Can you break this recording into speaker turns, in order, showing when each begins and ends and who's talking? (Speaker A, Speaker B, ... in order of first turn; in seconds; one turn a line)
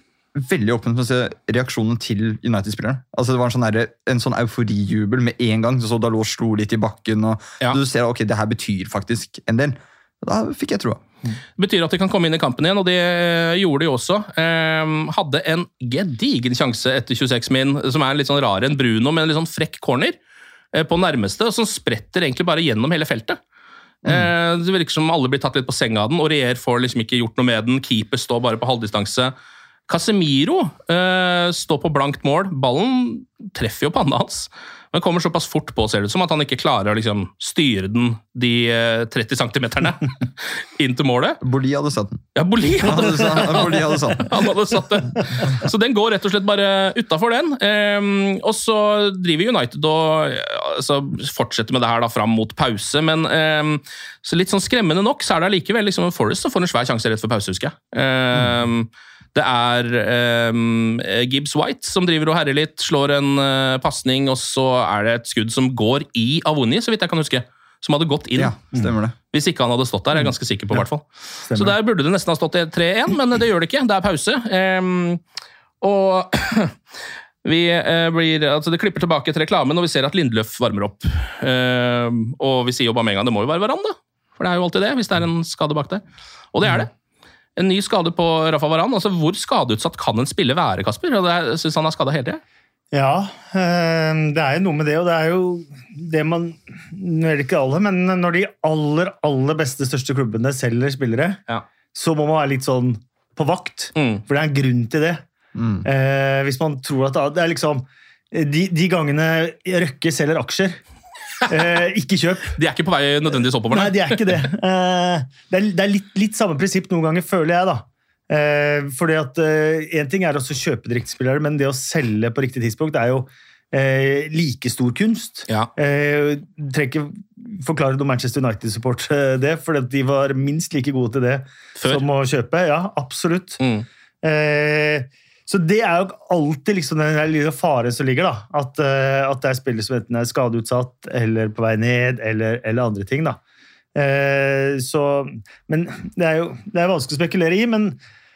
Speaker A: 0.4-11.0
Speaker B: 11.6-20.2
Speaker B: 20.7-23.4
Speaker A: 24.0-24.3
Speaker B: 24.0-29.3
Speaker B: 29.9-40.2
Speaker B: 40.8-41.4
Speaker A: 41.4-42.2
Speaker B: 42.4-68.5
Speaker A: 42.8-44.4
Speaker A: 68.3-69.2
Speaker B: 69.3-75.2
Speaker C: 71.5-71.7
Speaker B: 75.8-76.8
Speaker B: 77.4-86.0
Speaker B: 86.5-86.9
Speaker B: 87.6-92.4
Speaker C: 92.9-101.4
Speaker C: 101.9-105.2
Speaker B: 103.9-104.2
Speaker A: 105.5-105.8
Speaker C: 105.8-110.8
Speaker C: 111.5-112.6
Speaker B: 112.5-114.4
Speaker C: 113.7-133.6
Speaker B: 131.8-132.0
Speaker B: 133.6-133.9
Speaker C: 134.2-143.4
Speaker C: 143.9-148.0